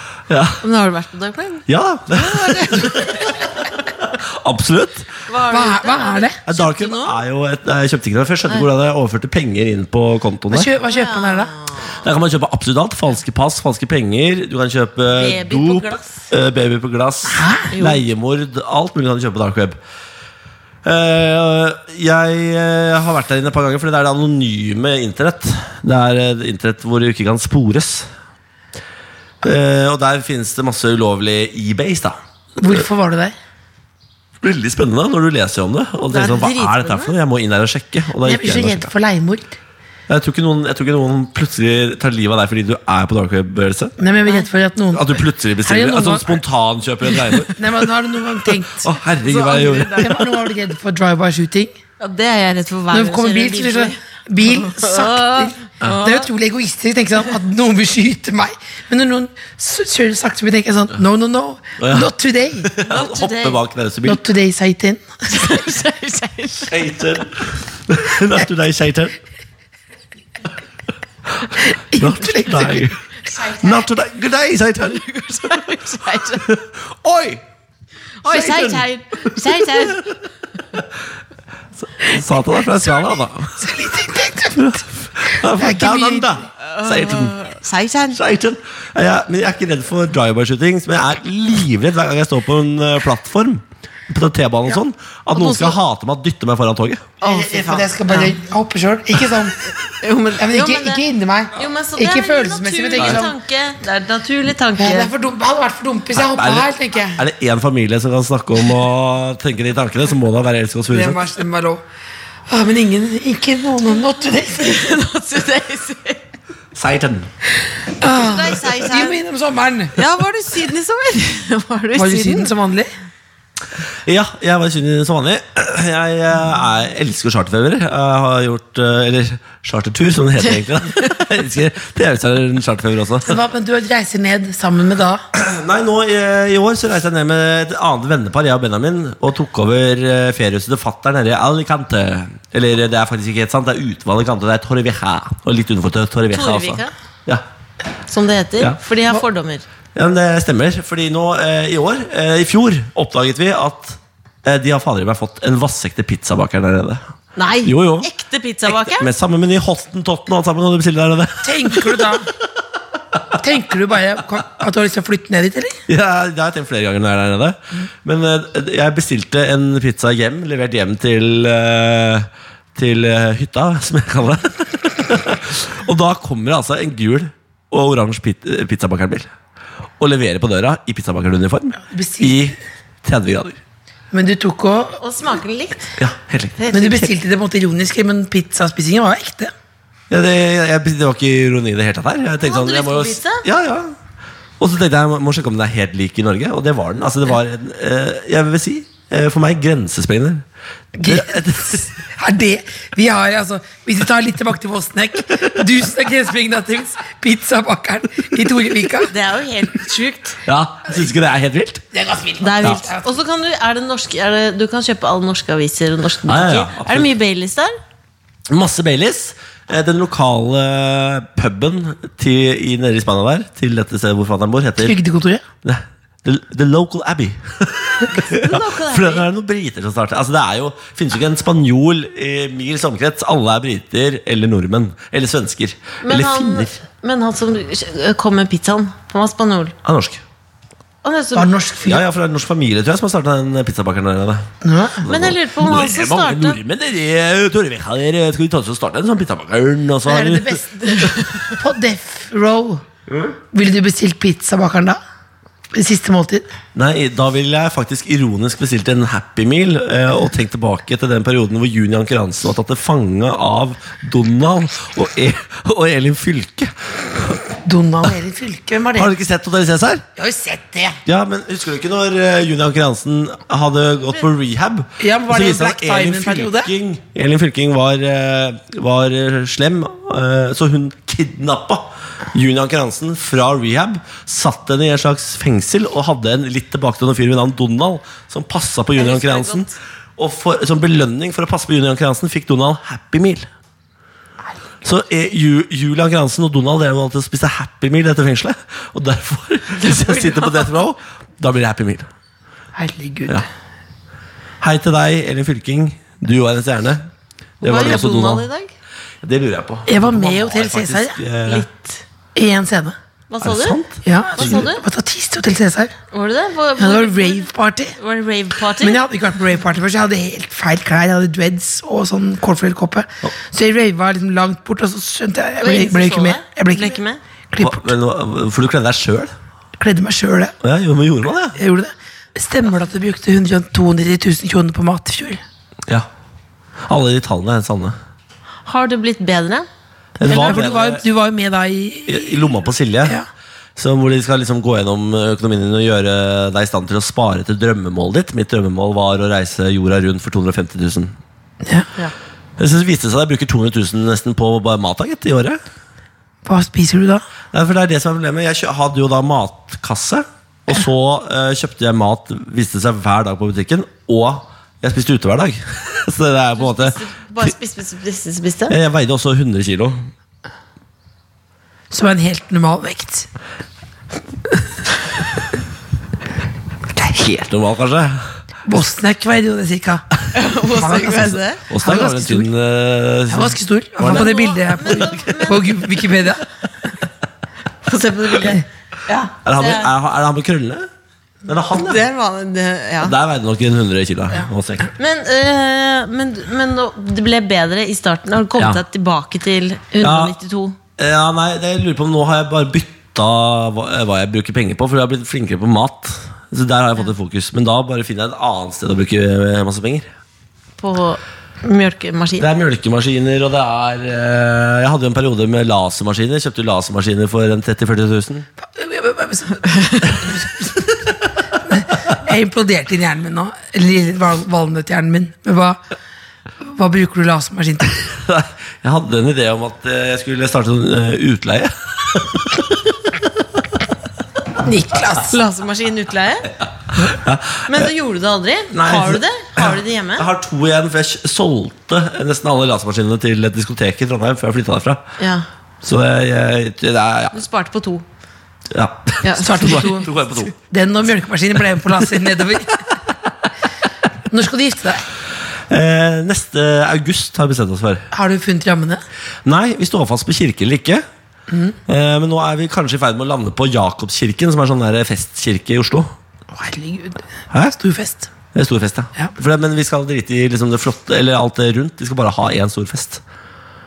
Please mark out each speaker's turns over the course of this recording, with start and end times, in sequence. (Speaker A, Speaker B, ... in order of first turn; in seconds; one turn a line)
Speaker A: 0.3-0.6
Speaker B: 0.6-3.5
Speaker A: 1.7-5.1
Speaker B: 5.3-7.2
Speaker C: 5.5-6.4
Speaker A: 6.5-10.7
Speaker C: 10.5-11.5
Speaker B: 10.9-12.0
Speaker A: 12.0-19.8
Speaker B: 15.1-16.3
Speaker C: 17.3-17.7
Speaker B: 17.7-18.0
Speaker A: 20.8-28.1
Speaker A: 29.4-32.7
Speaker C: 32.6-33.3
Speaker A: 34.4-38.9
Speaker B: 36.1-37.1
Speaker C: 38.2-39.5
Speaker A: 40.1-43.9
Speaker C: 44.0-46.4
Speaker A: 44.9-47.7
Speaker C: 47.5-48.9
Speaker A: 48.6-50.2
Speaker B: 49.2-50.2
Speaker C: 50.0-51.7
Speaker B: 52.0-56.3
Speaker C: 52.9-62.7
Speaker A: 61.8-62.1
Speaker A: 62.6-64.2
Speaker B: 62.8-63.6
Speaker C: 64.0-65.4
Speaker B: 65.3-66.7
Speaker A: 66.7-69.2
Speaker C: 71.7-72.9
Speaker A: 72.0-73.0
Speaker B: 73.3-73.8
Speaker A: 73.6-75.0
Speaker B: 74.8-76.5
Speaker A: 76.4-77.4
Speaker B: 78.2-80.0
Speaker A: 78.2-80.1
Speaker A: 81.8-83.7
Speaker C: 83.6-84.8
Speaker A: 84.5-87.3
Speaker C: 85.5-86.4
Speaker B: 86.6-88.2
Speaker A: 88.1-97.1
Speaker B: 95.3-95.8
Speaker B: 97.2-98.3
Speaker C: 97.2-99.6
Speaker B: 100.0-101.0
Speaker C: 100.4-103.3
Speaker B: 101.5-105.1
Speaker A: 103.0-103.3
Speaker C: 104.8-107.2
Speaker A: 106.1-111.2
Speaker C: 110.9-111.8
Speaker C: 112.5-114.8
Speaker B: 114.6-116.2
Speaker A: 116.7-117.3
Speaker C: 118.0-120.0
Speaker B: 118.0-119.2
Speaker B: 119.9-122.5
Speaker C: 121.9-122.9
Speaker A: 124.0-133.4
Speaker C: 133.2-135.2
Speaker A: 135.3-147.4
Speaker B: 146.3-146.9
Speaker B: 148.1-149.6
Speaker A: 149.9-157.0
Speaker B: 157.3-159.1
Speaker A: 157.6-158.1
Speaker A: 158.7-162.1
Speaker C: 161.4-162.3
Speaker C: 163.4-165.8
Speaker A: 165.9-179.3
Speaker A: 180.0-183.6
Speaker C: 181.8-182.4
Speaker C: 184.1-185.0
Speaker B: 185.0-185.8
Speaker A: 186.0-187.0
Speaker B: 186.6-187.0
Speaker C: 186.7-189.5
Speaker A: 190.1-193.9
Speaker B: 192.4-193.4
Speaker A: 194.6-200.4
Speaker C: 201.0-209.1
Speaker A: 201.0-201.9
Speaker B: 209.1-210.4
Speaker A: 210.4-211.8
Speaker C: 211.9-213.2
Speaker B: 212.4-217.7
Speaker A: 216.3-217.1
Speaker A: 218.5-224.9
Speaker C: 224.8-225.4
Speaker A: 225.6-236.8
Speaker B: 228.0-229.2
Speaker B: 236.0-239.7
Speaker A: 239.8-240.2
Speaker B: 241.0-241.5
Speaker C: 241.3-242.0
Speaker A: 241.8-244.5
Speaker C: 244.6-245.0
Speaker A: 245.0-250.6
Speaker B: 245.0-246.6
Speaker C: 250.0-252.8
Speaker B: 250.9-251.5
Speaker A: 253.1-253.3
Speaker C: 253.5-255.0
Speaker C: 255.7-256.5
Speaker A: 256.7-267.4
Speaker C: 267.6-269.1
Speaker A: 268.9-270.0
Speaker C: 270.1-271.0
Speaker A: 271.1-293.5
Speaker C: 275.0-276.7
Speaker B: 288.9-289.8
Speaker A: 294.8-302.1
Speaker B: 299.8-300.8
Speaker C: 302.8-303.4
Speaker A: 304.6-307.1
Speaker A: 307.6-308.4
Speaker B: 307.6-308.7
Speaker A: 309.2-311.7
Speaker C: 309.9-311.2
Speaker B: 311.5-312.0
Speaker C: 312.3-312.9
Speaker B: 313.3-313.8
Speaker A: 313.4-314.7
Speaker C: 314.0-315.9
Speaker B: 314.3-314.8
Speaker B: 316.1-319.0
Speaker C: 316.8-318.0
Speaker C: 318.8-327.0
Speaker B: 325.6-327.2
Speaker C: 327.5-327.9
Speaker A: 327.6-329.3
Speaker C: 329.8-330.5
Speaker A: 330.6-331.6
Speaker C: 331.5-335.4
Speaker A: 336.9-338.0
Speaker B: 338.6-339.7
Speaker A: 340.2-341.0
Speaker C: 340.2-343.3
Speaker A: 342.1-343.2
Speaker A: 343.8-351.1
Speaker C: 351.6-351.9
Speaker A: 352.6-355.6
Speaker C: 356.4-357.2
Speaker A: 357.5-367.5
Speaker B: 366.6-368.8
Speaker A: 368.7-370.1
Speaker C: 371.9-373.3
Speaker A: 376.9-378.3
Speaker C: 378.6-380.0
Speaker B: 380.3-381.6
Speaker C: 380.7-382.5
Speaker A: 380.9-385.2
Speaker C: 383.3-386.4
Speaker B: 384.0-386.1
Speaker B: 387.8-389.9
Speaker A: 389.4-390.9
Speaker A: 391.4-392.0
Speaker B: 391.7-393.1
Speaker A: 393.0-394.9
Speaker B: 395.0-400.8
Speaker A: 400.0-400.3
Speaker A: 401.0-410.1
Speaker B: 410.8-412.4
Speaker A: 412.4-418.5
Speaker C: 418.6-421.0
Speaker B: 419.6-420.2
Speaker C: 421.6-425.8
Speaker C: 426.6-427.9
Speaker A: 428.1-432.8
Speaker C: 434.6-435.3
Speaker B: 435.3-436.5
Speaker A: 437.0-437.9
Speaker B: 437.7-440.3
Speaker A: 438.7-445.0
Speaker B: 445.2-445.4
Speaker A: 445.8-447.3
Speaker B: 447.3-448.0
Speaker A: 448.7-450.5
Speaker B: 449.2-450.4
Speaker C: 449.4-452.8
Speaker C: 454.3-455.0
Speaker A: 455.7-458.1
Speaker C: 458.1-459.0
Speaker A: 459.4-461.0
Speaker C: 461.5-461.8
Speaker A: 461.9-466.1
Speaker C: 466.5-468.3
Speaker A: 468.5-473.2